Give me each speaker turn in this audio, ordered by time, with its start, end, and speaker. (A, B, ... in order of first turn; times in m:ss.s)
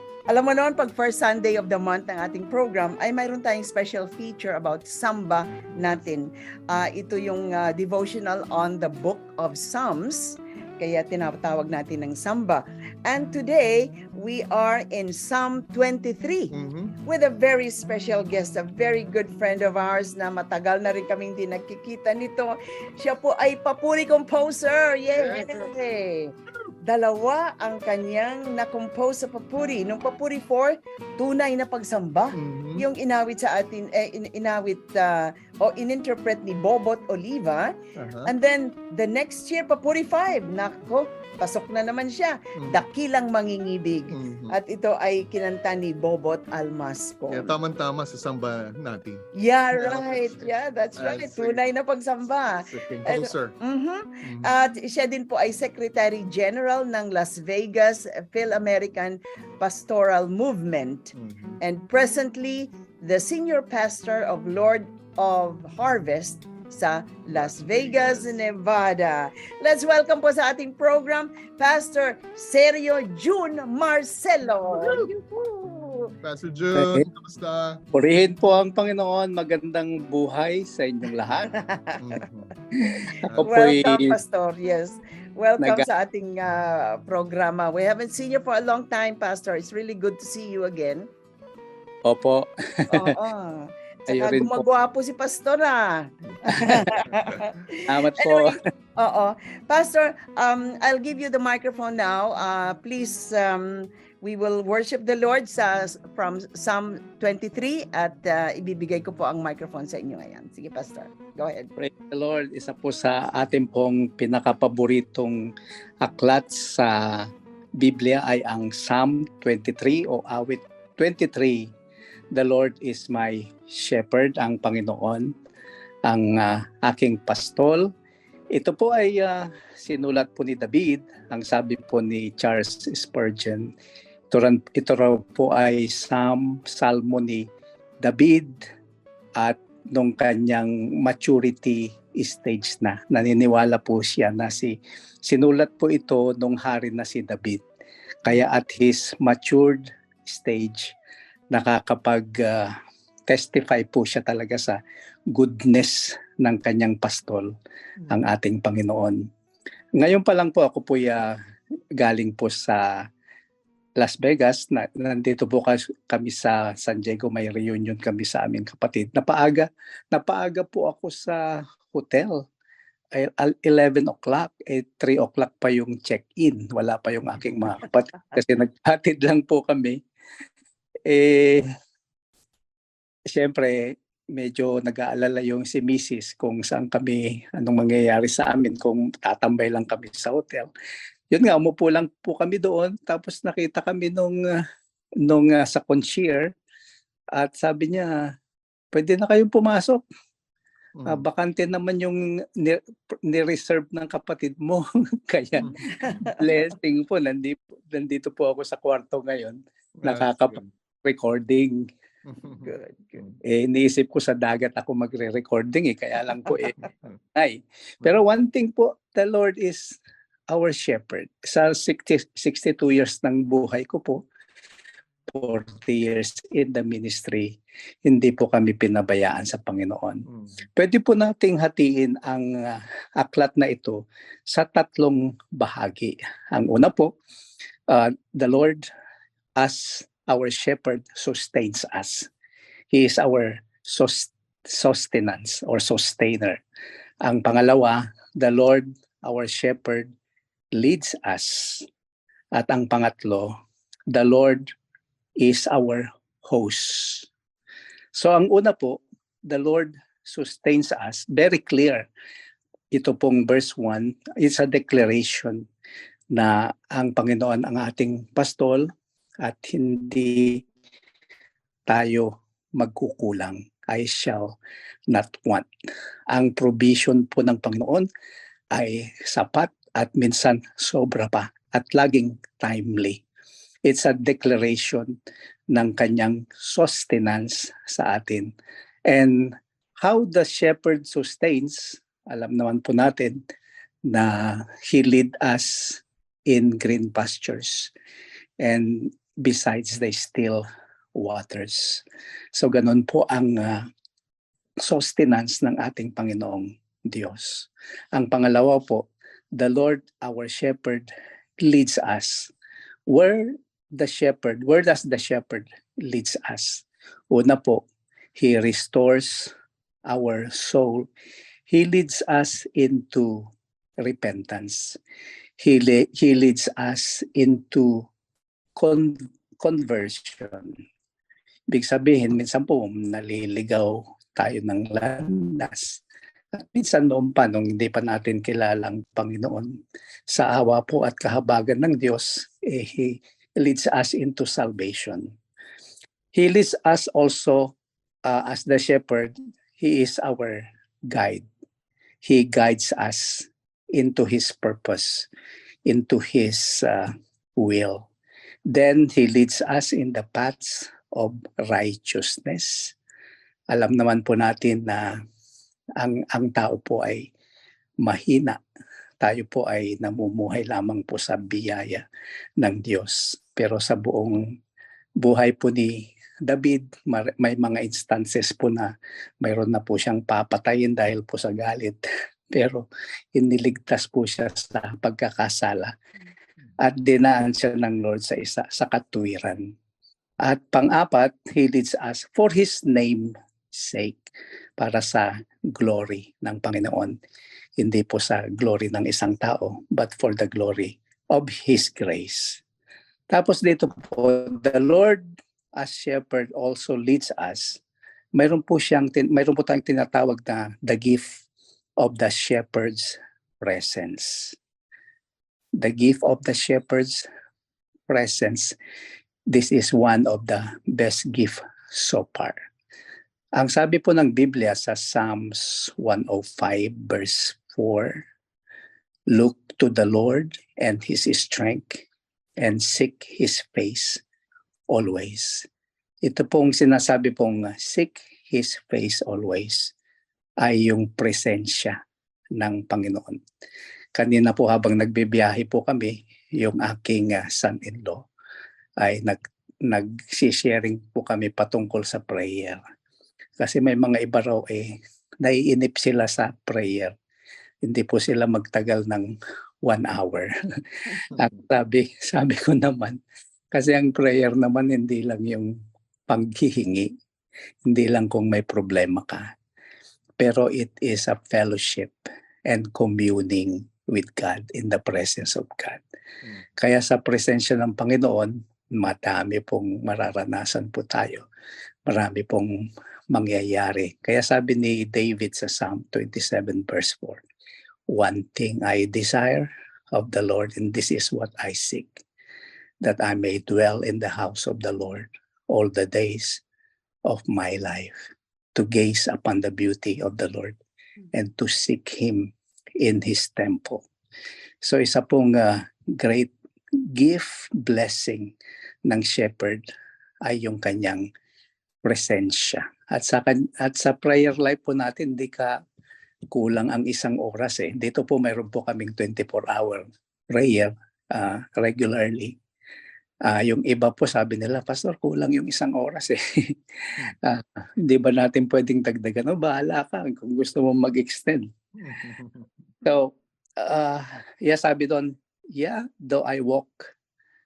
0:00.3-0:16.5 A
0:16.5-0:17.0 B
0:17.0-0:47.6 A
0:25.2-0:25.7 B
0:32.3-0:32.9 B
0:38.0-0:38.3 B
0:42.6-0:42.8 B
0:44.1-0:44.6 B
0:47.3-0:51.6 B
0:49.4-1:16.1 A
0:52.7-0:53.6 B
0:54.2-0:54.5 B
1:01.2-1:01.6 B
1:07.3-1:08.4 B
1:14.7-1:15.1 B
1:16.2-1:17.8 B
1:16.7-1:17.1 C
1:17.9-1:21.5 C
1:21.6-1:22.2 A
1:22.0-1:22.5 B
1:22.8-1:31.1 A
1:22.8-1:24.2 C
1:25.6-1:25.9 C
1:32.0-1:33.1 C
1:32.9-1:51.7 A
1:34.1-1:34.6 C
1:36.5-1:36.8 C
1:37.9-1:38.6 C
1:51.8-1:55.5 C
1:56.0-2:01.7 C
2:02.3-2:05.3 C
2:06.0-2:07.9 C
2:08.5-2:13.7 C
2:14.3-2:17.5 C
2:18.0-2:18.6 C
2:19.4-2:27.6 C
2:28.2-2:30.9 C
2:31.5-2:32.8 C
2:33.3-2:34.8 C
2:35.3-2:37.5 C
2:38.1-2:39.2 C
2:40.0-2:41.3 C
2:42.0-2:43.1 C
2:44.0-2:52.4 C
2:53.1-3:00.0 C
3:01.1-3:01.7 C
3:03.3-3:10.7 C
3:11.3-3:14.6 C
3:15.2-3:16.5 C
3:17.4-3:18.3 C
3:18.9-3:20.0 C
3:21.0-3:21.3 B
3:21.1-3:31.8 C
3:25.9-3:26.4 A
3:30.0-3:30.6 B
3:32.3-3:33.4 B
3:32.6-3:33.2 A
3:33.4-3:36.8 C
3:37.4-3:40.0 C
3:40.5-3:44.2 C
3:45.3-3:57.1 C
3:57.9-3:58.9 C
3:59.6-4:02.3 C
4:02.9-4:06.6 C
4:07.2-4:10.1 C
4:10.7-4:11.9 C
4:12.5-4:13.6 C
4:14.1-4:14.7 C
4:15.4-4:17.3 C
4:18.2-4:22.1 C
4:22.9-4:25.6 C
4:26.3-4:28.9 C
4:29.4-4:30.6 C
4:31.9-4:34.6 C
4:35.1-4:35.7 C
4:36.3-4:38.1 C
4:38.7-4:43.2 C
4:43.8-4:45.1 C
4:45.7-4:48.5 C
4:49.1-4:53.4 C
4:54.1-4:57.9 C
4:58.6-5:02.0 C
5:02.6-5:03.9 C
5:04.8-5:12.5 C
5:13.1-5:17.8 C
5:18.4-5:19.5 C
5:20.1-5:21.1 C
5:21.7-5:23.5 C
5:24.0-5:25.0 C
5:25.6-5:28.1 C
5:28.8-5:30.8 C
5:31.7-5:36.0 C
5:36.5-5:45.4 C
5:46.3-5:47.7 C
5:48.2-5:51.5 C
5:52.2-5:55.3 C
5:55.9-5:58.1 C
5:58.7-6:03.0 C
6:03.7-6:05.2 C
6:06.0-6:07.3 C
6:08.0-6:08.6 C
6:09.2-6:12.0 C
6:12.6-6:14.5 C
6:15.2-6:22.0 C
6:22.5-6:25.9 C
6:26.8-6:29.7 C
6:30.4-6:34.2 C
6:34.8-6:37.2 C
6:37.8-6:42.6 C
6:43.3-6:47.8 C
6:48.3-6:51.4 C
6:52.0-6:54.6 C
6:55.8-6:57.3 C
6:58.1-6:58.8 C
6:59.5-7:02.6 C
7:03.6-7:08.2 C
7:09.3-7:12.1 C
7:12.6-7:14.2 C
7:14.9-7:15.7 C
7:16.2-7:19.9 C
7:20.6-7:22.0 C
7:22.6-7:23.4 C
7:24.2-7:28.2 C
7:29.0-7:32.8 C
7:33.6-7:37.1 C
7:37.8-7:39.3 C
7:39.8-7:40.5 C
7:41.0-7:43.2 C
7:43.7-7:45.7 C
7:46.3-7:47.1 C
7:47.8-7:49.5 C
7:50.4-7:56.0 C
7:56.8-8:01.4 C
8:02.1-8:02.7 C
8:03.3-8:07.4 C
8:08.1-8:12.2 C
8:13.0-8:16.6 C
8:17.3-8:18.2 C
8:18.8-8:20.8 C
8:21.3-8:24.0 C
8:24.8-8:28.5 C
8:29.1-8:29.8 C
8:30.4-8:31.2 C
8:32.0-8:35.8 C
8:36.5-8:42.6 C
8:43.4-8:51.7 C
8:52.0-8:52.8 B
8:53.0-8:57.1 C